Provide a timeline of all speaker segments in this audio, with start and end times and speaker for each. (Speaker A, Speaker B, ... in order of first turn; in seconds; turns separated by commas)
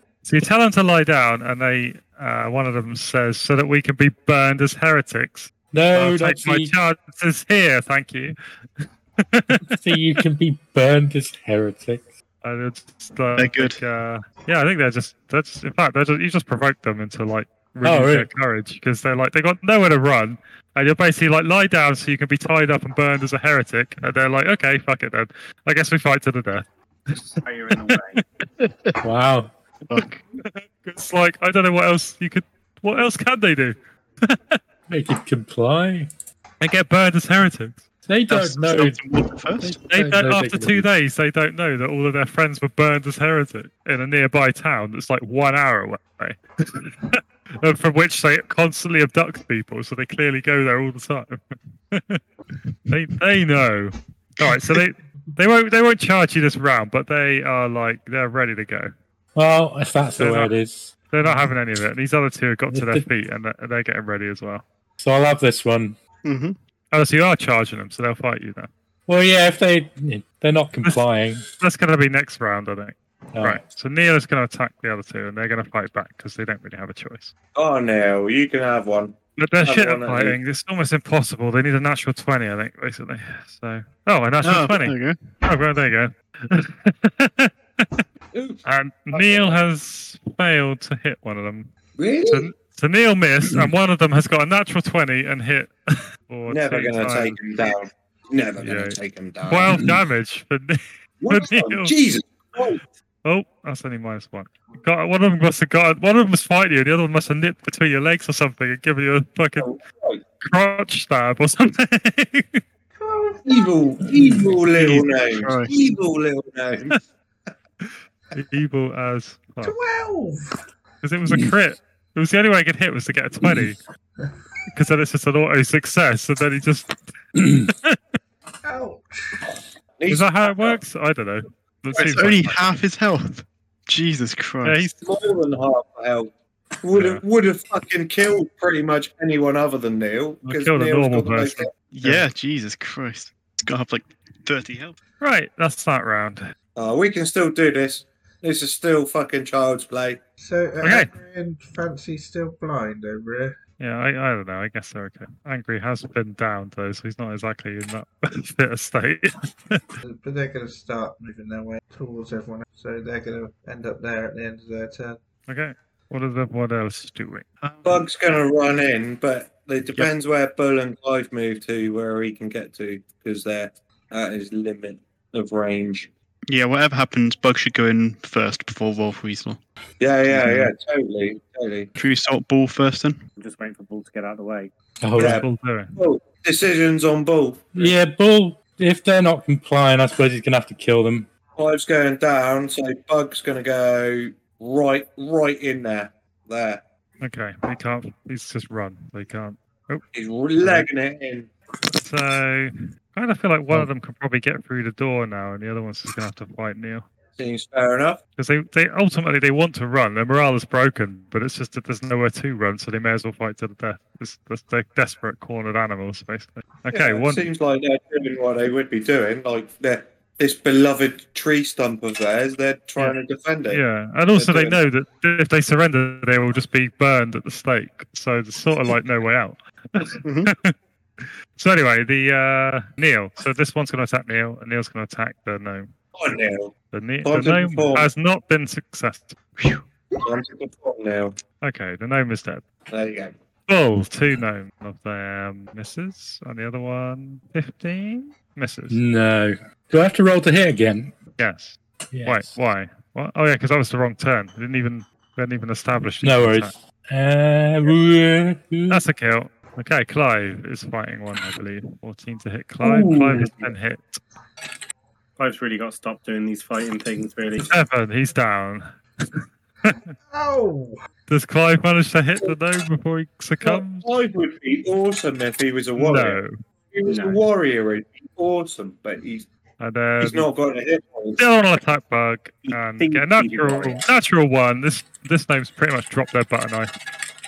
Speaker A: 0.2-9.8, Speaker B: 5.7-6.7, Speaker B: 9.7-12.1, Speaker A: 12.4-27.4, Speaker C: 13.3-13.8, Speaker B: 17.8-18.3, Speaker D: 27.4-28.2, Speaker C: 28.6-28.9, Speaker B: 29.0-29.5, Speaker C: 29.9-30.2, Speaker A: 30.4-34.6, Speaker B: 34.9-36.1, Speaker A: 36.6-37.9, Speaker B: 38.1-39.0, Speaker C: 38.3-39.8, Speaker B: 39.6-40.9, Speaker A: 39.9-52.2, Speaker A: 52.9-58.9, Speaker B: 59.3-61.5, Speaker A: 60.2-60.5, Speaker A: 61.1-64.7, Speaker B: 62.7-63.0, Speaker B: 65.0-66.0, Speaker C: 66.2-66.5, Speaker A: 66.9-68.7, Speaker B: 69.1-71.5, Speaker A: 71.6-77.3, Speaker B: 73.3-73.6, Speaker E: 77.5-80.4, Speaker A: 79.4-88.0, Speaker C: 84.4-85.2, Speaker E: 88.3-89.7, Speaker A: 88.6-91.7, Speaker E: 92.0-92.5, Speaker A: 92.3-97.4, Speaker E: 96.5-99.9, Speaker A: 98.6-101.9, Speaker E: 101.2-102.8, Speaker A: 103.2-109.7, Speaker E: 109.6-110.2, Speaker A: 110.4-112.6, Speaker F: 113.0-113.8, Speaker E: 113.5-117.1, Speaker C: 114.7-115.7, Speaker A: 117.8-119.8, Speaker F: 119.6-120.6, Speaker A: 121.0-123.8, Speaker A: 124.7-128.0, Speaker F: 128.6-129.5, Speaker E: 130.0-130.8, Speaker A: 130.1-132.7, Speaker C: 131.9-134.9, Speaker A: 134.6-134.9, Speaker E: 135.0-142.2, Speaker A: 136.9-137.2, Speaker A: 140.4-141.7, Speaker C: 141.9-145.0, Speaker A: 145.2-146.4, Speaker E: 146.8-150.2, Speaker F: 150.4-153.6, Speaker A: 150.8-151.1, Speaker A: 153.8-160.0, Speaker F: 160.0-165.2, Speaker A: 165.5-167.4, Speaker C: 167.6-168.0, Speaker E: 167.8-176.1, Speaker C: 176.5-179.6, Speaker E: 180.0-181.9, Speaker C: 180.3-180.6, Speaker C: 181.9-183.2, Speaker D: 183.4-184.7, Speaker B: 185.0-185.4, Speaker E: 185.2-187.9, Speaker A: 185.3-186.0, Speaker B: 187.7-191.3, Speaker E: 191.6-196.8, Speaker A: 197.2-200.0, Speaker E: 200.1-201.5, Speaker A: 200.6-200.8, Speaker A: 201.9-207.0, Speaker E: 207.4-208.2, Speaker A: 208.4-217.4, Speaker E: 216.9-223.8, Speaker A: 223.7-235.9, Speaker E: 224.3-224.8, Speaker C: 230.2-230.5, Speaker E: 236.1-236.7, Speaker A: 236.9-239.5, Speaker E: 237.2-238.1, Speaker E: 240.2-241.4, Speaker A: 241.6-242.6, Speaker E: 242.9-243.3, Speaker A: 243.7-249.0, Speaker B: 248.9-251.1, Speaker A: 251.4-256.7, Speaker B: 252.1-252.5, Speaker B: 256.2-259.0, Speaker A: 258.9-264.2, Speaker E: 262.8-263.7, Speaker D: 265.4-267.7, Speaker A: 267.6-270.1, Speaker F: 270.3-271.0, Speaker A: 271.3-274.1, Speaker E: 273.6-276.4, Speaker A: 276.0-276.5, Speaker E: 276.9-279.5, Speaker D: 277.1-277.4, Speaker A: 279.8-280.5, Speaker E: 280.2-281.4, Speaker A: 281.4-286.9, Speaker D: 282.7-284.0